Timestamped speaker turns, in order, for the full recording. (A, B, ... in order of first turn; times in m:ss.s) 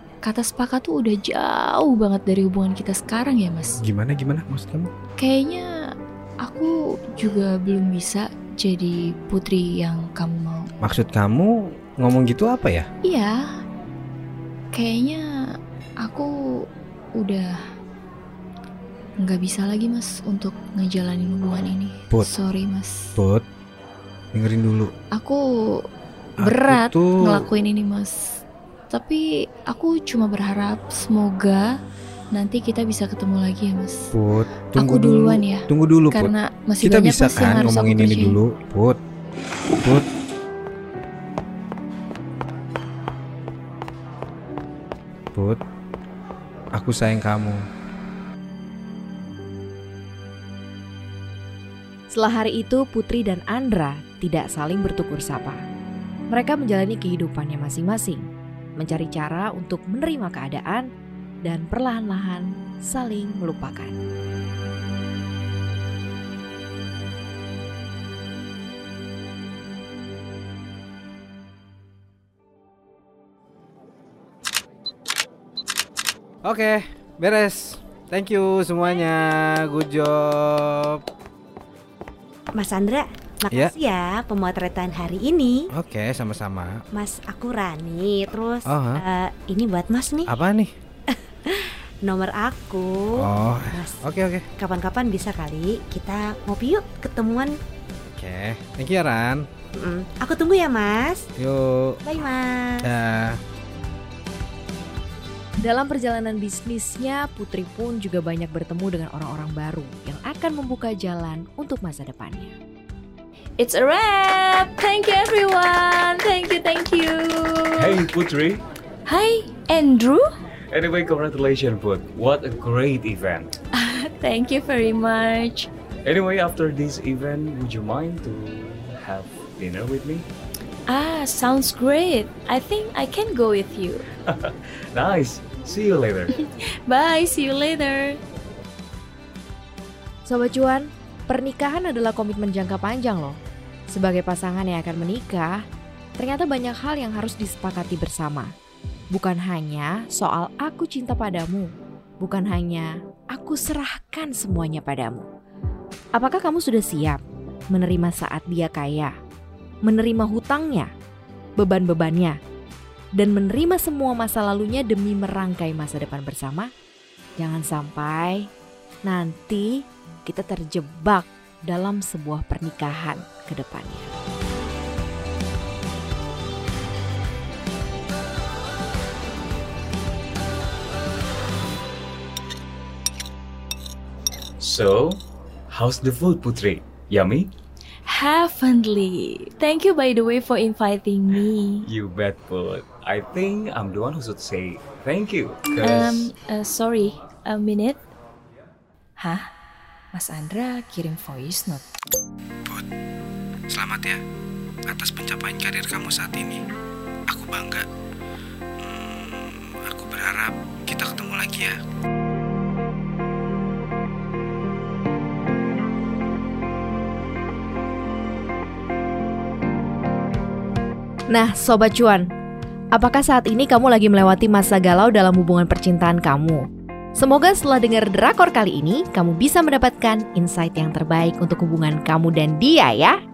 0:00.2-0:03.8 A
0:03.8-0:04.9 B
0:05.2-0:05.7 A
0:06.4-0:10.7 A
0:10.8-0:12.9 B
0:13.0-0:13.4 A
0:14.7-0:15.2 A
0:16.0-0:16.3 A
0:17.2-0:17.5 A
0:19.2-0:23.1 A
0:23.2-0:23.4 B
0:24.3-0:24.9 B
0:25.1-0:25.4 A
0:26.4-0:27.5 B
0:26.4-0:31.7 A
0:32.3-0:34.1 A
0:34.1-0:39.0 B
0:34.8-0:38.4 A
0:45.3-0:45.6 B
0:46.7-0:47.6 B
0:52.1-0:55.6 C
0:56.3-0:58.2 C
0:58.8-1:00.9 C
1:01.4-1:04.0 C
1:16.4-1:21.0 B
1:22.5-1:25.7 D
1:25.7-1:26.8 B
1:26.9-1:30.3 D
1:28.7-1:29.0 B
1:30.3-1:30.7 B
1:31.1-1:34.0 D
1:33.2-1:34.4 B
1:34.6-1:37.5 D
1:38.2-1:39.4 B
1:39.8-1:41.2 D
1:41.4-1:42.0 B
1:42.0-1:42.9 D
1:42.8-1:43.4 B
1:45.6-1:52.5 C
1:53.6-1:58.0 A
1:57.7-1:58.6 E
1:59.0-2:00.2 A
2:00.7-2:03.5 E
2:03.7-2:05.7 A
2:06.0-2:10.3 E
2:10.9-2:14.0 A
2:14.3-2:16.3 E
2:16.4-2:18.2 A
2:20.3-2:23.4 C
2:23.9-2:25.6 C
2:26.2-2:28.5 C
2:29.1-2:35.3 C
2:36.1-2:37.2 C
2:37.7-2:39.1 C
2:39.8-2:40.9 C
2:41.6-2:42.4 C
2:43.2-2:46.7 C
2:47.4-2:48.5 C
2:49.0-2:54.1 C
3:04.6-3:07.5 E
3:08.0-3:11.8 A
3:11.8-3:16.3 E
3:15.8-3:18.0 A
3:19.2-3:19.4 A
3:20.1-3:21.8 A
3:23.7-3:24.2 B
3:24.9-3:26.6 B
3:27.3-3:27.8 B
3:28.8-3:31.8 B
3:41.3-3:42.3 C
3:42.9-3:46.6 C
3:47.2-3:53.2 C